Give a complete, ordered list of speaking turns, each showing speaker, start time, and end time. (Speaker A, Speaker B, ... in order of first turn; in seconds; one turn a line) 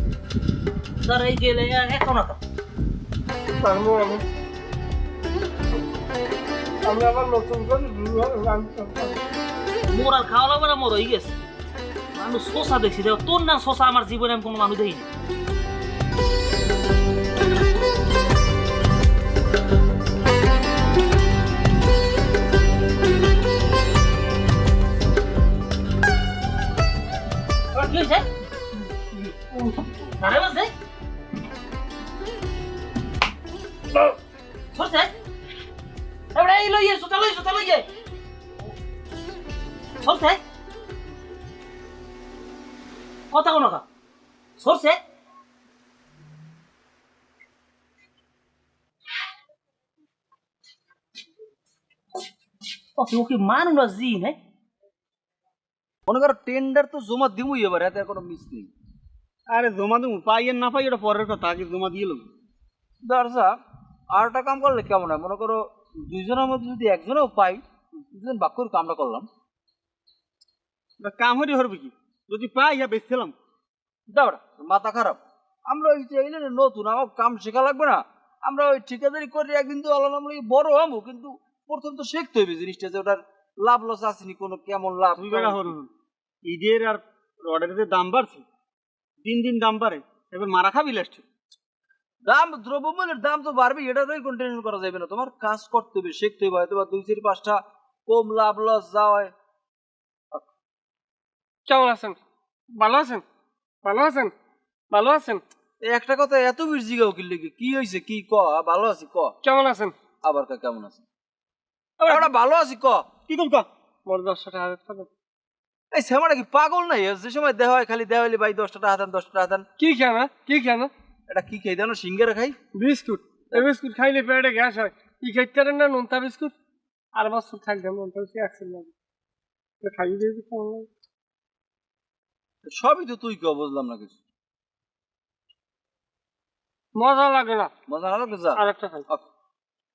Speaker A: 1.0-2.4
Speaker B: 3.6-4.2
Speaker B: 6.8-9.2
Speaker A: 9.9-11.4
Speaker A: 12.1-15.1
Speaker A: 27.7-28.3
Speaker A: 30.2-30.7
Speaker A: 34.7-35.1
Speaker A: 36.4-37.9
Speaker A: 40.0-40.4
Speaker A: 43.3-43.9
Speaker A: 44.6-45.0
Speaker A: 53.0-54.4
Speaker C: 56.1-58.7
Speaker D: 59.5-62.3
Speaker C: 63.0-63.6
Speaker C: 64.1-69.3
Speaker D: 71.0-73.3
Speaker C: 74.1-85.8
Speaker D: 85.2-85.9
Speaker D: 86.5-88.5
Speaker D: 89.2-91.2
Speaker C: 92.2-99.3
Speaker B: 101.7-102.2
Speaker B: 102.8-103.2
Speaker B: 103.8-104.3
Speaker B: 104.9-105.4
Speaker C: 105.8-109.4
Speaker B: 109.4-109.9
Speaker C: 110.2-111.0
Speaker C: 112.0-113.1
Speaker D: 113.3-113.7
Speaker B: 114.1-115.1
Speaker C: 115.9-119.7
Speaker B: 119.8-120.9
Speaker C: 121.3-122.6
Speaker B: 122.8-126.5
Speaker B: 127.2-128.9
Speaker B: 129.8-130.9
Speaker C: 132.7-134.2
Speaker B: 136.9-137.7
Speaker C: 137.9-139.3
Speaker B: 138.6-139.1